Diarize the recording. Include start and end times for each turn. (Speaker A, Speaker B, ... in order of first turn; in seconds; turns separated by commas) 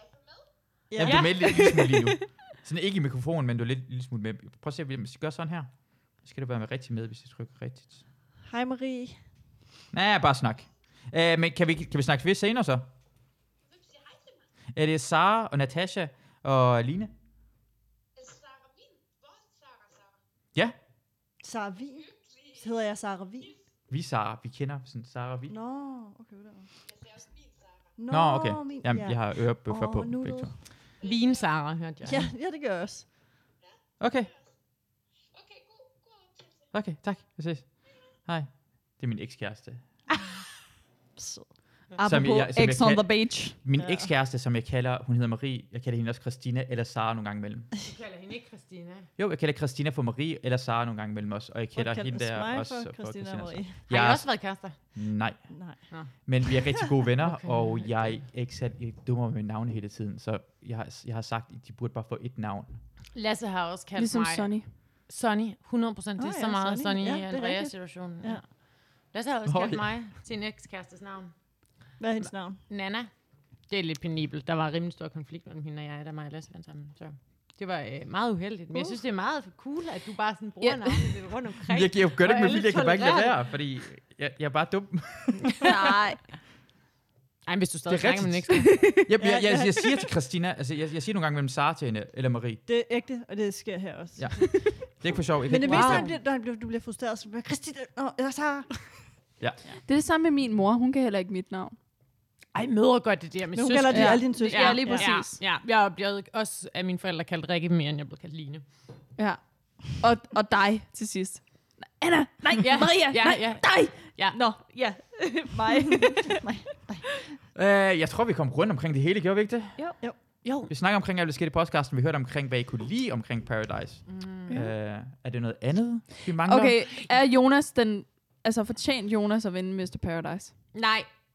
Speaker A: 0.9-1.6, Speaker B: 0.9-8.0, Speaker A: 8.4-9.2, Speaker B: 9.9-12.8, Speaker B: 14.7-17.1, Speaker A: 21.4-23.6, Speaker B: 23.9-25.5, Speaker A: 25.5-26.7, Speaker A: 27.9-30.6, Speaker B: 28.1-30.5, Speaker C: 31.0-32.3, Speaker A: 32.0-33.1, Speaker B: 34.0-34.3, Speaker B: 36.7-39.8, Speaker A: 41.1-41.5, Speaker D: 42.0-43.6, Speaker B: 42.0-47.7, Speaker A: 43.7-44.1, Speaker C: 47.8-49.1, Speaker B: 49.2-62.8, Speaker A: 51.7-53.8, Speaker C: 53.9-54.8, Speaker A: 55.5-55.9, Speaker C: 57.2-58.2, Speaker C: 63.1-68.5, Speaker D: 64.0-64.7, Speaker A: 66.2-68.4, Speaker C: 69.0-71.3, Speaker B: 69.5-69.9, Speaker A: 72.0-72.6, Speaker C: 72.2-73.1, Speaker C: 73.7-83.4, Speaker D: 80.6-81.2, Speaker B: 81.7-85.7, Speaker D: 85.6-86.2, Speaker C: 87.5-88.7, Speaker B: 87.9-92.6, Speaker D: 88.6-89.1, Speaker A: 89.2-89.9, Speaker A: 92.7-98.8, Speaker B: 94.2-96.1, Speaker C: 95.6-96.2, Speaker D: 99.9-101.7, Speaker C: 102.5-108.6, Speaker A: 103.5-105.1, Speaker D: 103.9-105.4, Speaker D: 109.2-116.5, Speaker C: 112.6-114.4, Speaker A: 115.6-117.0, Speaker B: 117.5-126.7, Speaker C: 120.4-120.7, Speaker C: 124.1-124.5, Speaker D: 126.4-130.5, Speaker C: 130.7-131.1